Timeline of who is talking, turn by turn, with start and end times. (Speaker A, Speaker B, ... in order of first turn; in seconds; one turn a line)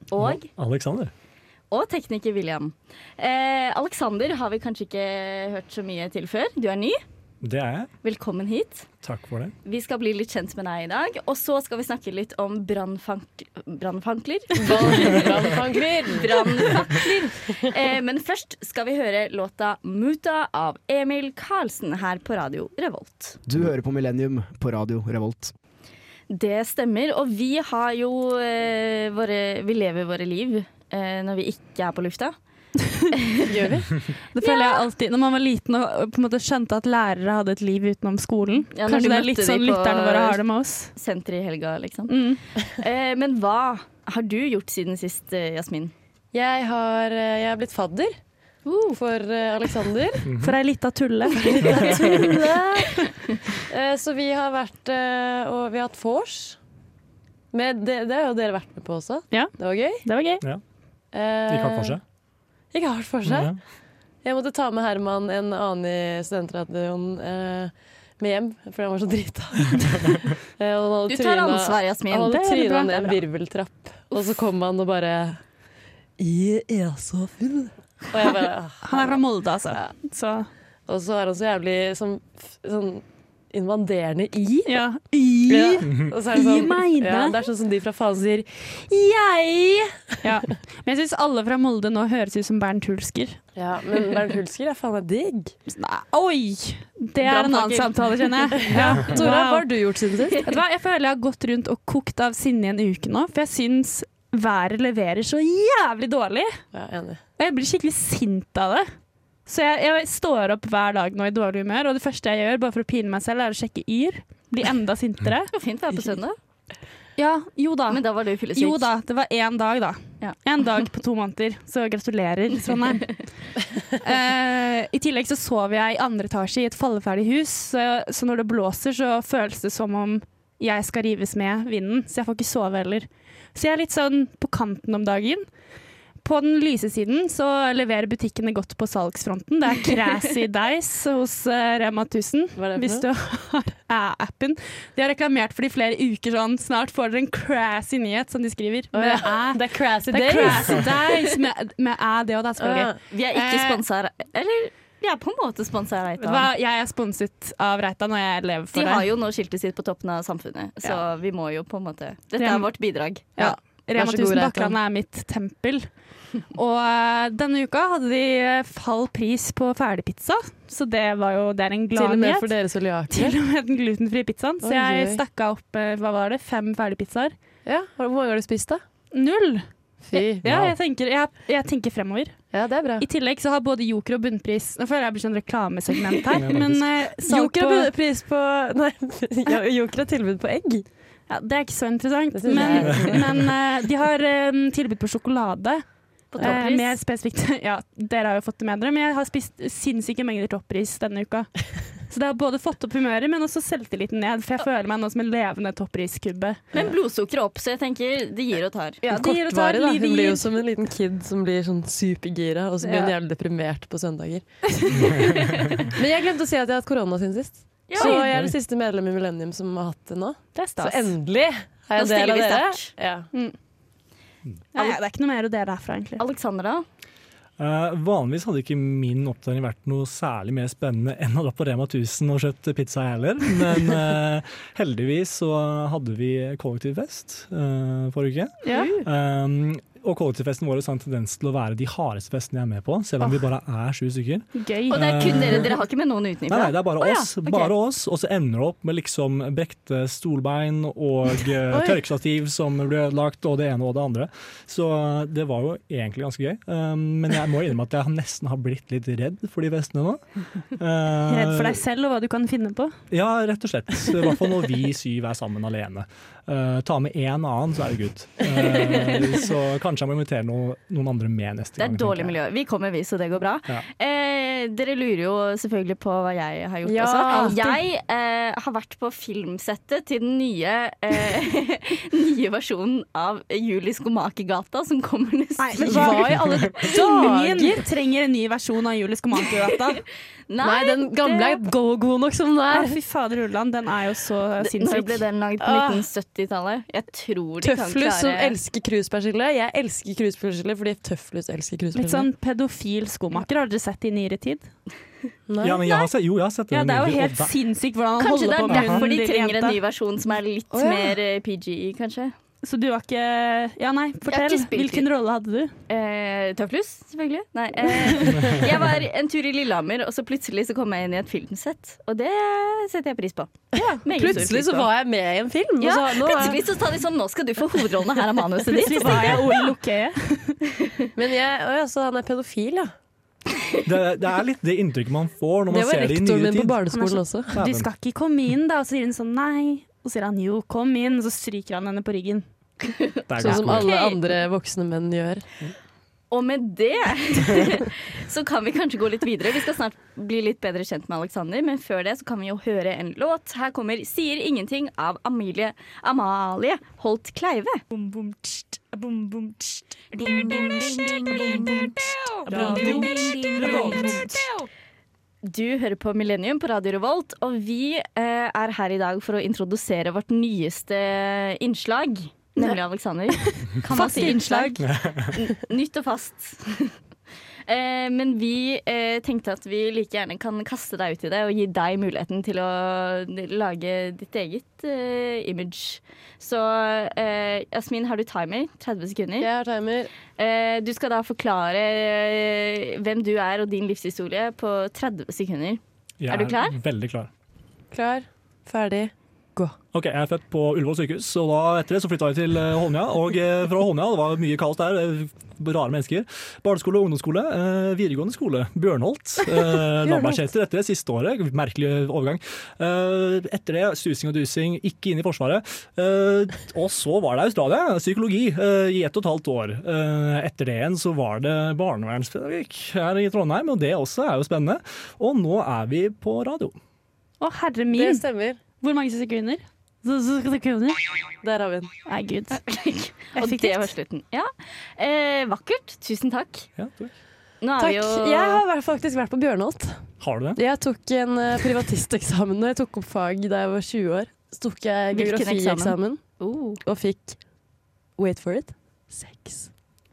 Speaker A: 0.1-0.5
Speaker B: 0.2-1.1
Speaker A: 1.7-7.0
Speaker B: 7.4-7.9
Speaker A: 8.0-8.9
Speaker B: 9.0-9.6
Speaker A: 9.7-23.4
Speaker C: 14.6-16.9
Speaker D: 23.5-25.5
Speaker A: 26.3-32.4
Speaker A: 33.1-33.5
Speaker C: 33.5-33.9
Speaker E: 34.3-40.9
Speaker A: 34.4-34.9
Speaker A: 38.7-40.4
Speaker A: 41.0-45.9
Speaker E: 42.1-42.4
Speaker C: 46.3-48.2
Speaker A: 48.6-49.0
Speaker C: 49.0-50.3
Speaker B: 50.2-50.6
Speaker E: 50.4-52.3
Speaker C: 51.6-56.6
Speaker B: 51.6-52.3
Speaker C: 57.5-60.0
Speaker E: 59.3-60.4
Speaker C: 61.1-62.0
Speaker B: 61.5-62.0
Speaker C: 62.7-63.6
Speaker B: 63.2-63.6
Speaker C: 64.2-75.4
Speaker A: 71.1-73.2
Speaker C: 76.2-79.2
Speaker E: 78.8-80.5
Speaker C: 80.9-84.8
Speaker E: 84.7-87.4
Speaker C: 85.5-90.3
Speaker E: 90.2-93.4
Speaker C: 93.6-95.5
Speaker E: 95.7-99.7
Speaker C: 97.2-100.5
Speaker E: 100.3-106.6
Speaker C: 106.7-107.2
Speaker E: 107.4-108.9
Speaker E: 109.5-115.5
Speaker A: 115.5-116.4
Speaker E: 117.2-123.2
Speaker A: 117.9-118.9
Speaker E: 124.0-135.5
Speaker E: 136.2-153.8
Speaker C: 142.6-143.1
Speaker C: 148.9-150.9
Speaker C: 152.6-153.0
Speaker A: 153.1-156.5
Speaker E: 156.2-159.1
Speaker A: 158.7-163.5
Speaker E: 162.4-162.7
Speaker E: 163.2-165.9
Speaker C: 163.4-164.8
Speaker E: 166.5-172.5
Speaker C: 171.9-173.4
Speaker E: 173.1-177.3
Speaker C: 174.6-175.2
Speaker C: 177.7-178.8
Speaker E: 179.1-187.9
Speaker C: 180.0-180.4
Speaker B: 180.4-180.8
Speaker C: 182.5-183.1
Speaker B: 186.3-187.0
Speaker C: 187.2-190.9
Speaker E: 191.3-195.8
Speaker C: 192.3-193.2
Speaker B: 192.9-193.2
Speaker A: 196.3-197.0
Speaker E: 196.4-201.5
Speaker E: 202.1-206.6
Speaker A: 206.7-209.0
Speaker E: 209.0-210.5
Speaker C: 209.1-214.4
Speaker E: 212.8-213.1
Speaker C: 215.9-223.3
Speaker A: 217.9-218.2
Speaker E: 218.0-218.3
Speaker E: 220.6-221.1
Speaker A: 222.0-222.9
Speaker E: 224.7-226.2
Speaker A: 226.2-226.8
Speaker B: 227.6-245.8
Speaker E: 238.6-238.9
Speaker A: 238.7-239.0
Speaker E: 244.6-245.3
Speaker A: 244.9-246.8
Speaker B: 246.5-261.8
Speaker E: 247.0-247.7
Speaker C: 251.7-252.0
Speaker E: 261.3-263.0
Speaker B: 263.1-272.4
Speaker A: 271.8-286.1
Speaker C: 276.8-277.8
Speaker E: 277.3-277.6
Speaker E: 285.6-290.0
Speaker C: 285.8-287.8
Speaker A: 290.5-291.6
Speaker C: 290.6-292.9
Speaker E: 292.7-295.2
Speaker A: 294.6-298.6
Speaker C: 295.6-296.1
Speaker C: 297.6-302.3
Speaker E: 301.9-304.7
Speaker C: 305.5-305.8
Speaker B: 305.6-307.5
Speaker E: 306.7-309.8
Speaker A: 308.2-312.3
Speaker B: 308.7-309.0
Speaker C: 310.7-311.2
Speaker E: 312.6-315.7
Speaker A: 314.3-315.1
Speaker A: 315.9-323.5
Speaker B: 318.4-318.7
Speaker C: 323.7-326.6
Speaker A: 324.0-324.9
Speaker A: 325.8-329.4
Speaker E: 328.7-330.6
Speaker C: 331.2-332.9
Speaker B: 333.9-336.9
Speaker C: 335.7-337.6
Speaker E: 336.9-342.4
Speaker B: 337.5-337.9
Speaker B: 343.3-343.9
Speaker C: 343.4-345.5
Speaker A: 343.6-344.2
Speaker A: 346.3-357.8
Speaker E: 357.9-364.5
Speaker C: 362.5-364.0
Speaker A: 362.5-363.0
Speaker A: 365.4-376.9
Speaker E: 373.7-374.8
Speaker B: 374.8-375.4
Speaker A: 377.7-389.5
Speaker C: 389.4-390.1
Speaker A: 390.4-396.8
Speaker B: 396.2-397.3
Speaker C: 397.9-399.8
Speaker B: 399.9-426.8
Speaker C: 410.0-410.5
Speaker E: 427.4-428.3
Speaker C: 427.9-428.6
Speaker E: 428.8-431.0
Speaker C: 431.4-431.9
Speaker E: 432.1-432.6
Speaker A: 432.5-436.7
Speaker E: 433.3-433.9
Speaker B: 436.8-437.1
Speaker A: 437.6-438.6
Speaker C: 437.8-446.2
Speaker B: 440.2-440.6
Speaker A: 445.1-446.8
Speaker C: 446.8-447.4
Speaker C: 448.2-449.7